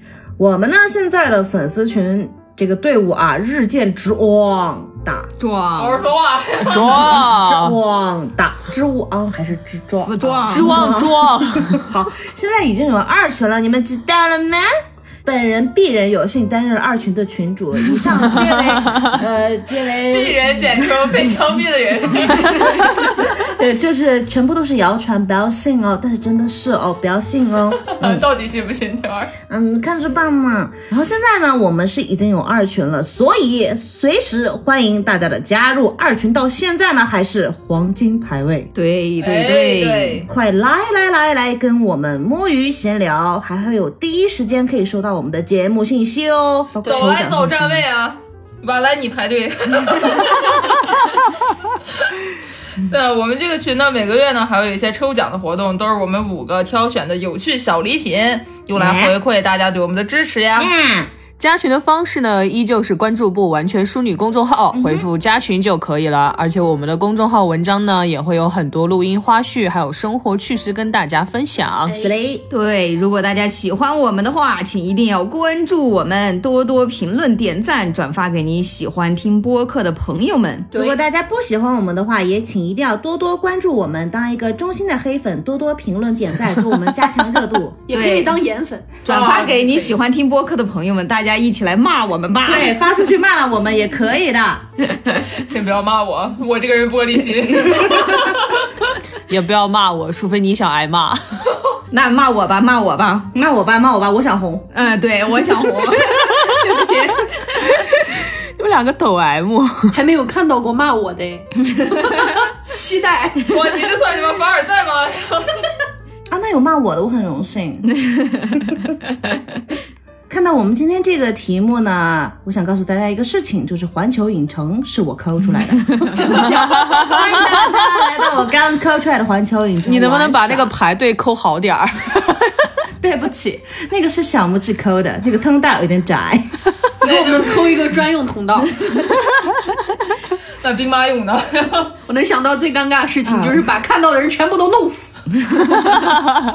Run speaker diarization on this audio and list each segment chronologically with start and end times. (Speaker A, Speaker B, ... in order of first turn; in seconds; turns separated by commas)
Speaker A: 0.4-5.3, Speaker B: 5.4-6.0, Speaker C: 5.8-7.3, Speaker D: 6.7-7.7, Speaker A: 7.1-14.7, Speaker B: 10.0-10.8, Speaker D: 10.5-11.8, Speaker A: 15.2-20.9, Speaker D: 18.8-19.1, Speaker C: 20.1-23.0, Speaker A: 23.2-28.2, Speaker C: 28.0-29.3, Speaker A: 29.5-38.7, Speaker B: 38.7-40.3, Speaker C: 39.2-40.3, Speaker A: 40.3-47.8, Speaker C: 46.8-50.8, Speaker C: 52.8-60.7, Speaker A: 58.7-59.1, Speaker A: 60.5-61.1, Speaker D: 61.4-72.0, Speaker A: 64.7-65.0, Speaker A: 71.9-72.4, Speaker B: 72.5-80.7, Speaker E: 80.7-81.0, Speaker A: 80.7-87.8, Speaker E: 87.9-89.9, Speaker B: 87.9-88.4, Speaker B: 89.0-92.7, Speaker C: 89.1-89.5, Speaker A: 92.4-94.6, Speaker B: 94.9-95.2, Speaker C: 95.4-98.4, Speaker D: 99.3-101.4, Speaker B: 101.9-103.3, Speaker A: 103.3-104.7, Speaker B: 104.7-107.6, Speaker D: 106.1-106.7, Speaker D: 107.6-110.0, Speaker E: 109.9-113.5, Speaker C: 113.5-115.6, Speaker A: 116.3-117.9, Speaker B: 118.0-118.6, Speaker A: 120.3-130.7, Speaker E: 126.4-126.7, Speaker D: 126.4-127.3, Speaker D: 129.8-132.7, Speaker A: 133.0-136.5, Speaker C: 137.0-137.8, Speaker E: 137.0-138.8, Speaker C: 140.6-141.9, Speaker E: 142.1-145.2, Speaker B: 145.4-146.3